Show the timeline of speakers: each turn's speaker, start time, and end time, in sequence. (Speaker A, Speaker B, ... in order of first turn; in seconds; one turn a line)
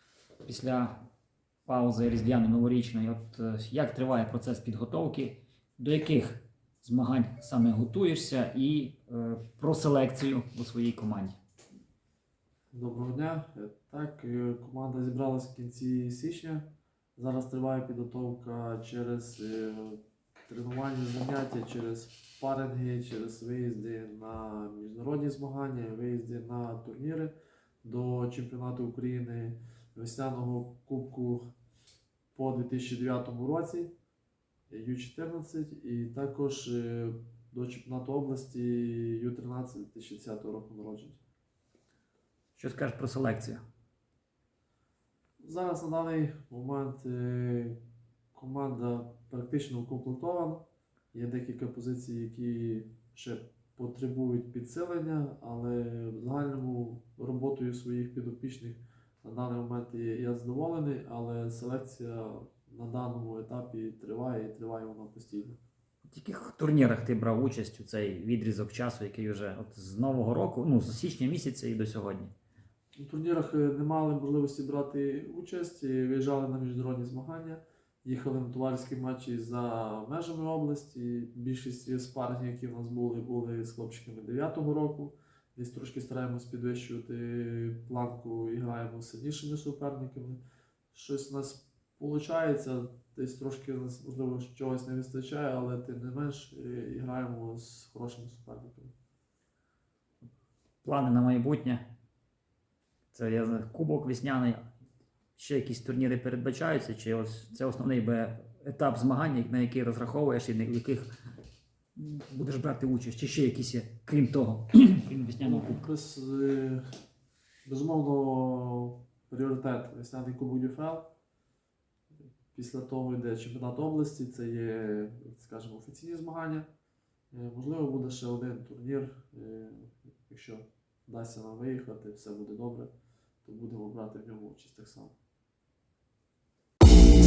Speaker A: 0.4-1.0
Speaker A: 1.6-11.4
Speaker B: 12.7-31.5
Speaker B: 32.3-33.9
Speaker B: 34.7-41.2
Speaker A: 42.5-43.6
Speaker B: 45.4-47.8
Speaker B: 48.3-50.6
Speaker B: 51.1-65.6
Speaker A: 66.1-72.3
Speaker B: 73.0-90.4
Speaker B: 90.9-98.9
Speaker A: 100.8-101.8
Speaker A: 103.1-104.7
Speaker A: 105.3-111.1
Speaker A: 112.0-115.9
Speaker B: 115.4-116.8
Speaker B: 117.6-121.1
Speaker B: 122.5-126.7
Speaker B: 127.3-132.9
Speaker B: 133.4-135.1